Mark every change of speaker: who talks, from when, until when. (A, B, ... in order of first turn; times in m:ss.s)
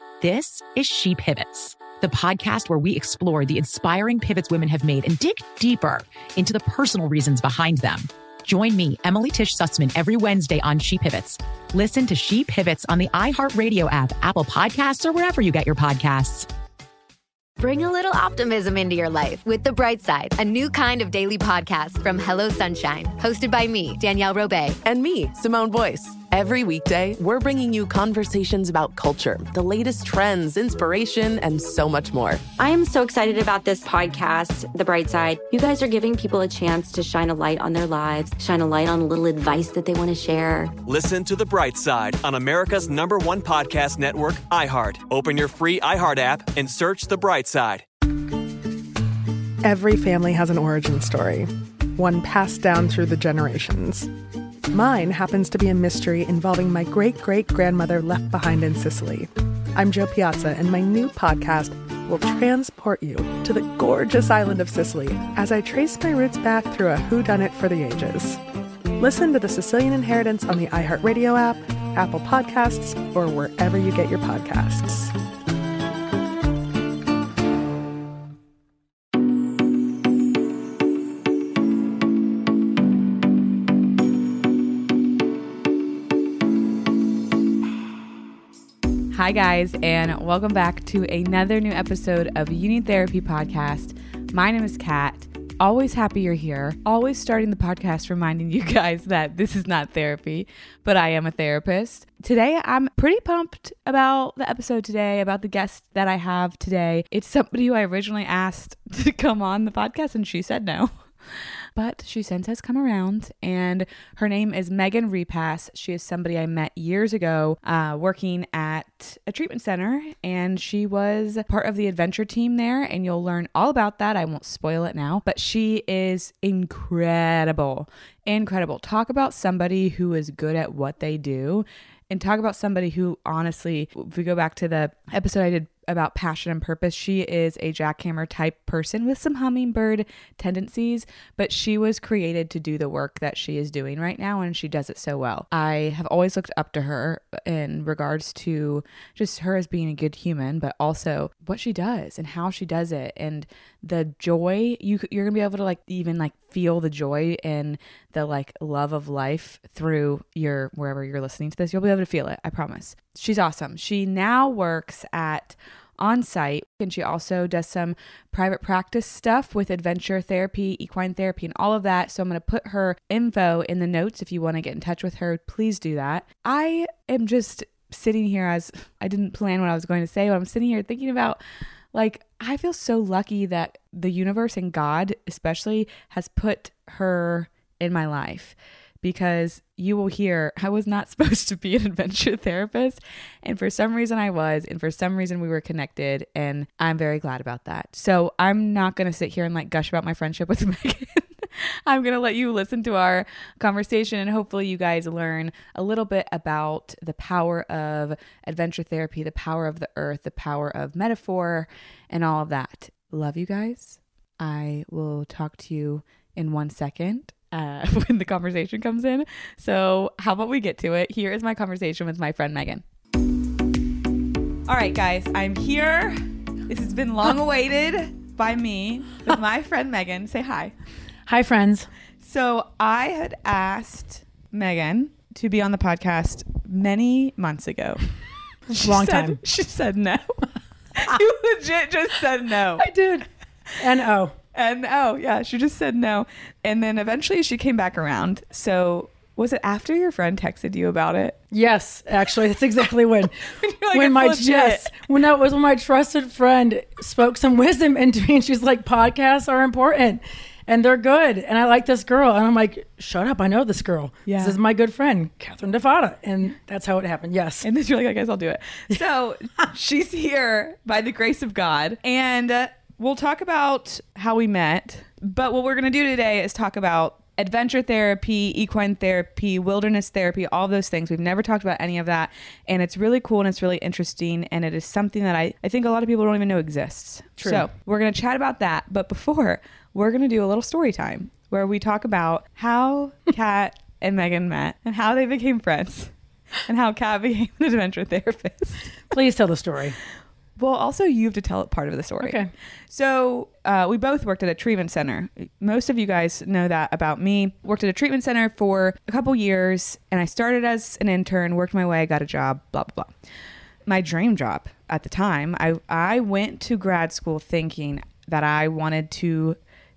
0:00.2-0:16.5 A
0:17.6-0:24.8 B
0:24.8-0:32.4 C
0:32.6-0:40.8 D
0:40.8-0:47.8 E
0:49.6-0:54.1 F
0:54.7-1:08.4 F
1:09.0-1:15.1 F
1:29.1-3:01.4 G
3:01.9-3:42.8 G
3:44.7-3:50.7 G
3:51.3-3:51.9 H
3:52.2-3:58.0 G
3:58.7-3:59.4 H
3:58.8-4:00.4 G
4:01.0-4:02.9 G
4:02.8-4:03.3 H
4:03.8-4:04.4 H
4:04.5-4:11.4 G
4:11.5-4:27.6 H
4:13.5-4:14.9 G
4:24.3-4:24.6 G
4:27.6-4:56.1 G
4:56.7-4:58.9 G
4:59.1-5:00.0 H
5:00.6-5:13.1 G
5:02.2-5:02.5 H
5:13.9-5:19.6 G